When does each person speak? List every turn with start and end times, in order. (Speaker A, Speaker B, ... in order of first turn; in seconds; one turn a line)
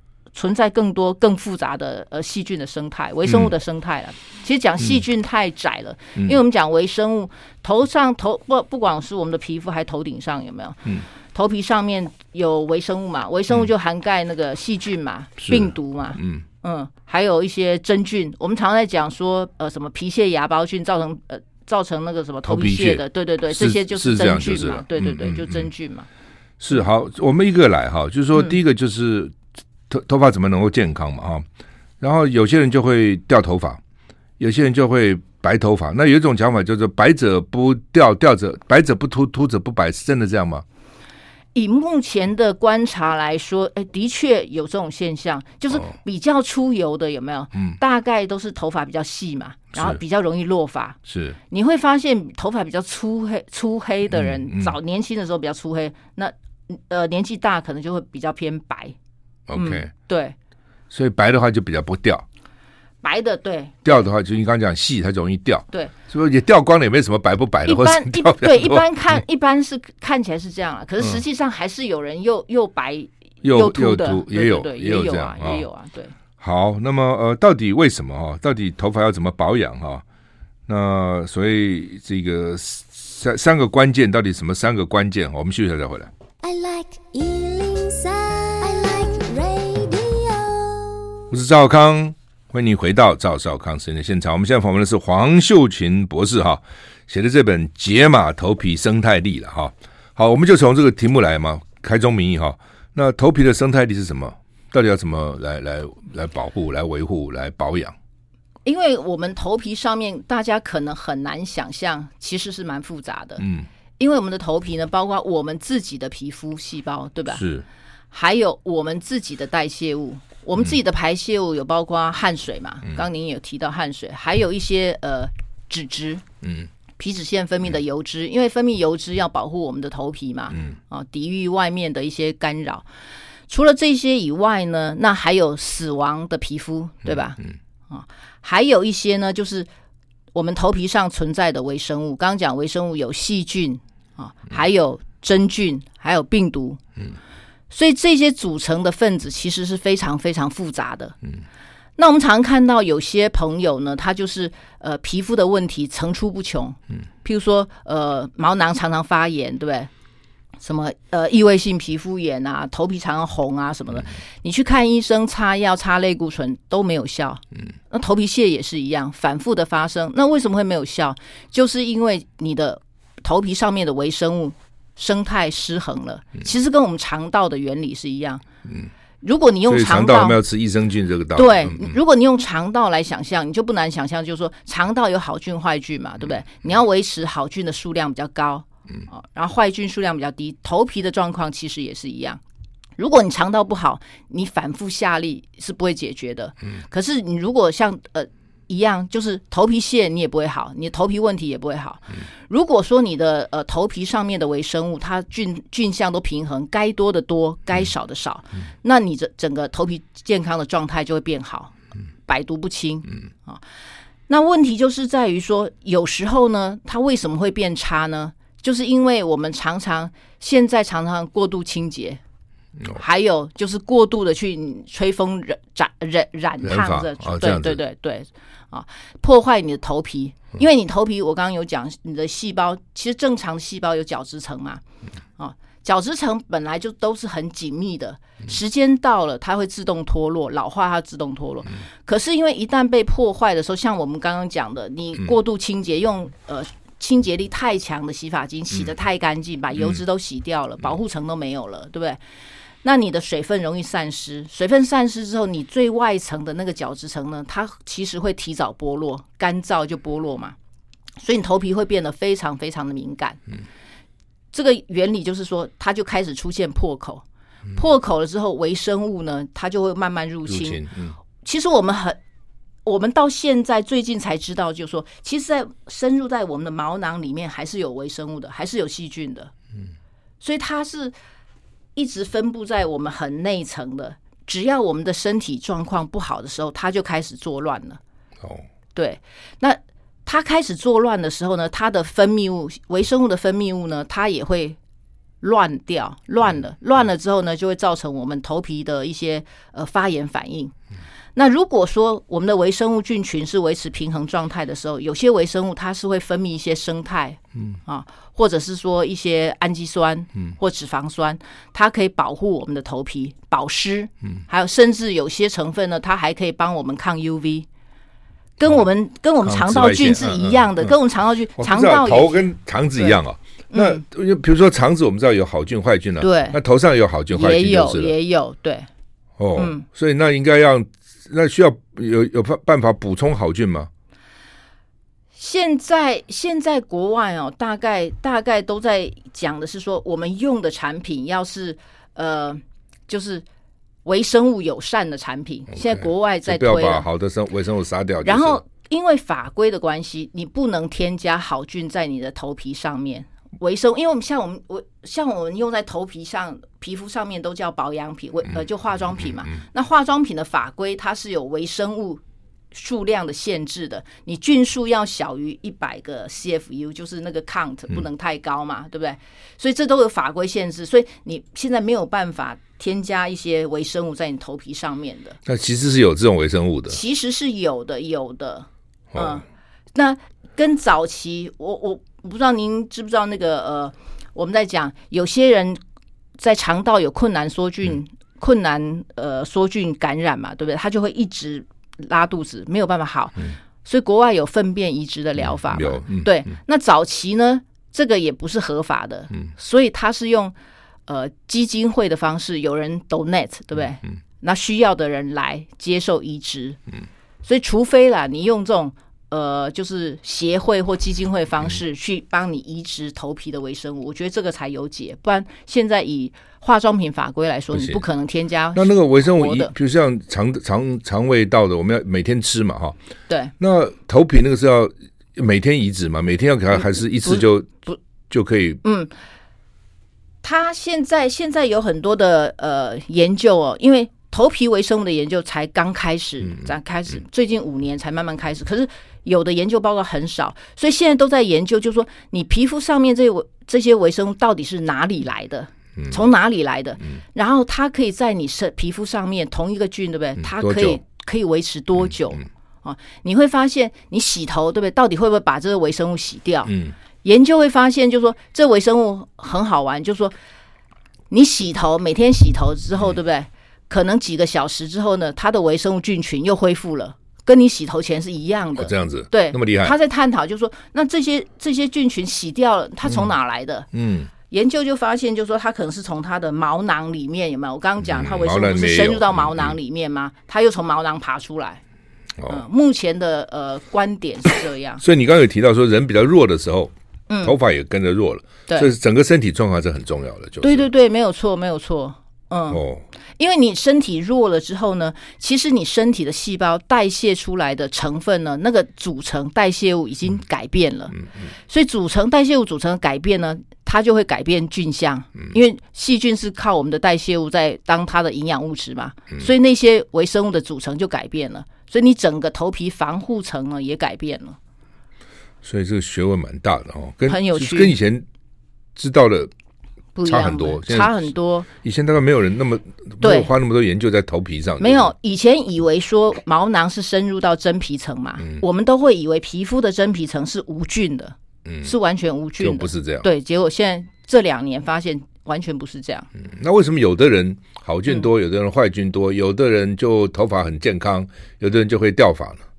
Speaker A: 0.3-26.1
Speaker B: 15.4-16.4
Speaker B: 22.4-25.7
Speaker B: 26.6-29.4
Speaker B: 29.9-31.4
Speaker B: 32.0-33.8
Speaker B: 34.4-40.6
Speaker A: 41.5-51.0
Speaker B: 51.1-51.4
Speaker A: 51.5-59.0
Speaker B: 54.1-54.8
Speaker B: 59.5-59.9
Speaker A: 59.5-60.4
Speaker B: 60.9-62.2
Speaker A: 63.0-64.0
Speaker B: 63.8-68.9
Speaker A: 67.7-76.1
Speaker B: 73.4-75.7
Speaker B: 76.4-80.0
Speaker B: 80.7-86.1
Speaker C: 86.4-91.2
Speaker B: 91.3-108.0
Speaker A: 108.7-113.4
Speaker B: 113.4-113.7
Speaker A: 114.0-117.4
Speaker B: 117.3-117.7
Speaker A: 118.1-126.2
Speaker B: 126.4-126.7
Speaker A: 127.0-132.8
Speaker A: 133.5-139.7
Speaker A: 140.3-146.8
Speaker A: 147.7-151.2
Speaker A: 152.0-159.9
Speaker A: 160.6-178.4
Speaker A: 179.2-180.4
Speaker B: 179.7-182.0
Speaker A: 181.3-192.4
Speaker A: 193.0-211.7
Speaker A: 212.2-213.6
Speaker A: 214.3-222.2
Speaker A: 222.9-234.8
Speaker B: 226.6-227.8
Speaker A: 235.4-252.2
Speaker A: 252.8-260.6
Speaker A: 261.2-263.4
Speaker A: 264.5-267.2
Speaker A: 267.8-270.8
Speaker B: 270.5-271.2
Speaker A: 271.4-272.2
Speaker A: 272.9-279.5
Speaker A: 280.4-281.1
Speaker A: 281.9-288.0
Speaker A: 288.9-294.8
Speaker A: 295.4-300.7
Speaker A: 301.4-317.7
Speaker A: 318.6-322.5
Speaker B: 319.4-320.9
Speaker B: 321.6-328.1
Speaker A: 323.7-324.0
Speaker A: 326.2-326.6
Speaker A: 327.3-328.9
Speaker B: 329.4-333.9
Speaker A: 329.6-329.8
Speaker A: 335.4-343.4
Speaker A: 344.1-347.1
Speaker B: 345.8-348.6
Speaker A: 348.2-362.2
Speaker A: 362.7-375.4
Speaker B: 375.5-377.0
Speaker A: 376.9-385.8
Speaker B: 379.1-379.4
Speaker A: 386.4-400.6
Speaker B: 395.4-396.3
Speaker A: 401.1-406.8
Speaker A: 407.4-419.7
Speaker B: 417.7-418.0
Speaker B: 418.7-423.0
Speaker B: 423.6-427.7
Speaker A: 427.2-428.0
Speaker B: 428.3-428.8
Speaker A: 428.8-429.1
Speaker A: 430.4-456.7
Speaker B: 450.4-451.0
Speaker B: 456.7-456.9
Speaker A: 457.2-460.4
Speaker A: 461.3-473.9
Speaker B: 468.8-469.9
Speaker B: 473.9-474.3
Speaker A: 474.5-481.8
Speaker B: 478.0-479.8
Speaker B: 482.4-482.6
Speaker A: 482.5-485.0
Speaker B: 485.0-490.9
Speaker A: 487.3-487.6
Speaker A: 490.6-492.8
Speaker B: 492.7-493.0
Speaker A: 493.4-514.6
Speaker B: 515.6-518.2
Speaker A: 517.3-518.0
Speaker B: 519.0-519.5
Speaker A: 520.1-521.7
Speaker B: 520.2-521.2
Speaker B: 521.8-525.1
Speaker A: 523.2-523.5
Speaker A: 524.8-536.3
Speaker B: 531.7-531.9
Speaker B: 532.6-533.3
Speaker B: 536.4-542.6